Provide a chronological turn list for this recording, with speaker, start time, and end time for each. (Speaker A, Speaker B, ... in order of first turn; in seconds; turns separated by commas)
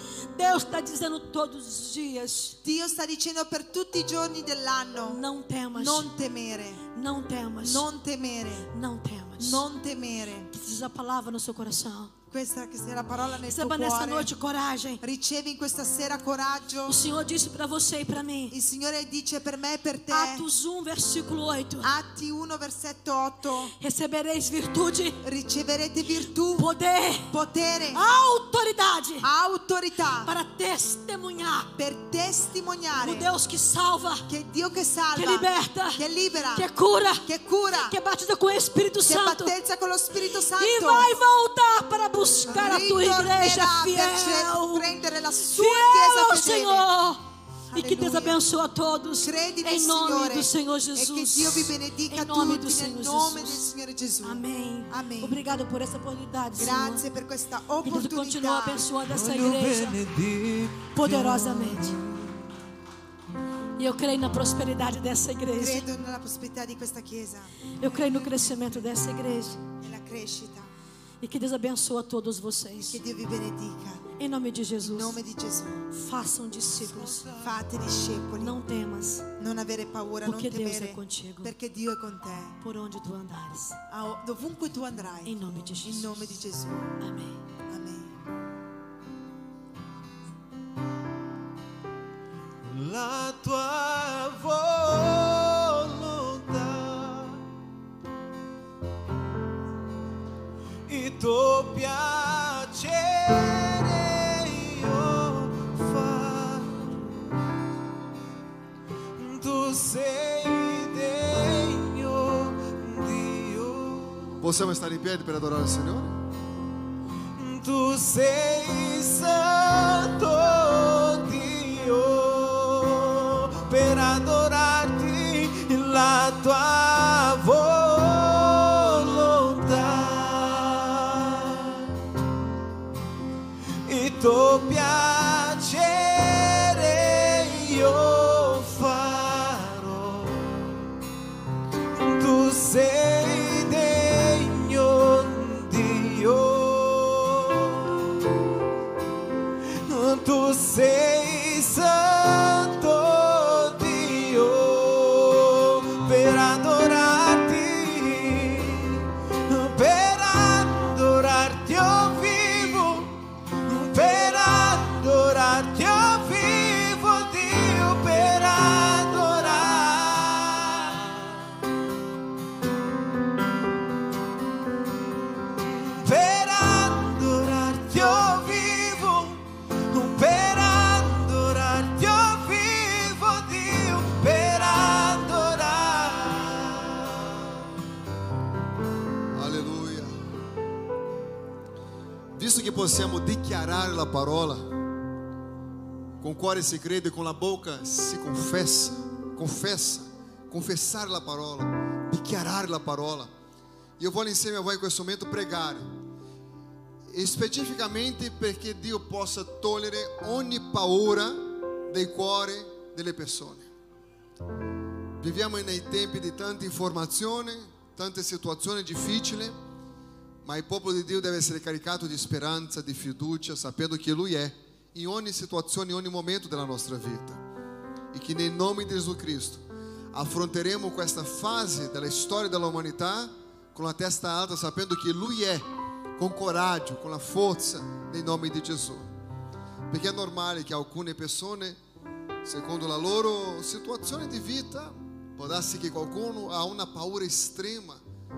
Speaker A: 0.3-2.6, Speaker B: 2.6-5.2, Speaker A: 5.1-6.1, Speaker B: 5.7-6.8, Speaker A: 6.9-7.9, Speaker B: 7.6-8.7, Speaker A: 8.7-9.6, Speaker B: 9.4-10.5, Speaker A: 10.5-12.1, Speaker B: 12.3-14.3, Speaker A: 13.5-15.0, Speaker B: 15.0-17.0, Speaker A: 16.9-18.6, Speaker B: 18.5-20.4, Speaker A: 20.1-21.9, Speaker B: 21.8-23.7, Speaker A: 23.8-25.2, Speaker B: 25.2-26.7, Speaker A: 26.5-27.3, Speaker B: 27.3-28.0, Speaker A: 27.9-29.3, Speaker B: 29.2-30.3, Speaker A: 30.2-31.7, Speaker B: 31.8-33.3, Speaker A: 33.0-34.3, Speaker B: 34.3-36.7, Speaker A: 35.1-36.0, Speaker A: 36.5-37.3, Speaker B: 37.2-38.0, Speaker A: 37.8-39.5, Speaker B: 39.0-41.1, Speaker A: 40.5-53.7, Speaker B: 42.5-46.9, Speaker B: 47.7-48.4, Speaker B: 49.2-55.4, Speaker A: 54.2-57.0, Speaker B: 56.5-58.9, Speaker A: 57.8-60.0, Speaker C: 59.1-62.6, Speaker A: 60.9-62.0, Speaker A: 63.8-65.9, Speaker B: 65.6-68.8, Speaker A: 67.8-69.6, Speaker B: 69.8-70.7, Speaker A: 71.2-73.0, Speaker B: 72.8-74.0, Speaker A: 74.2-75.2, Speaker B: 74.8-75.9, Speaker A: 75.9-77.3, Speaker C: 76.7-77.6, Speaker B: 77.4-78.6, Speaker A: 78.4-79.3, Speaker B: 79.4-82.6, Speaker A: 80.2-81.5, Speaker A: 82.6-83.8, Speaker B: 83.9-87.0, Speaker A: 85.2-86.2, Speaker A: 87.0-87.4, Speaker B: 87.7-88.1, Speaker C: 92.6-97.4, Speaker C: 100.9-107.3, Speaker C: 109.2-114.5, Speaker D: 114.4-116.2, Speaker C: 117.3-131.9, Speaker C: 133.9-140.7, Speaker C: 141.9-148.3, Speaker C: 149.9-171.4, Speaker C: 175.7-187.4, Speaker D: 189.3-190.2, Speaker D: 192.3-194.7, Speaker D: 196.2-203.3, Speaker D: 204.0-205.9, Speaker D: 207.1-213.7, Speaker D: 215.2-219.6, Speaker D: 220.4-227.4, Speaker D: 228.1-235.6, Speaker D: 236.2-239.1, Speaker D: 239.9-241.8, Speaker D: 242.4-248.0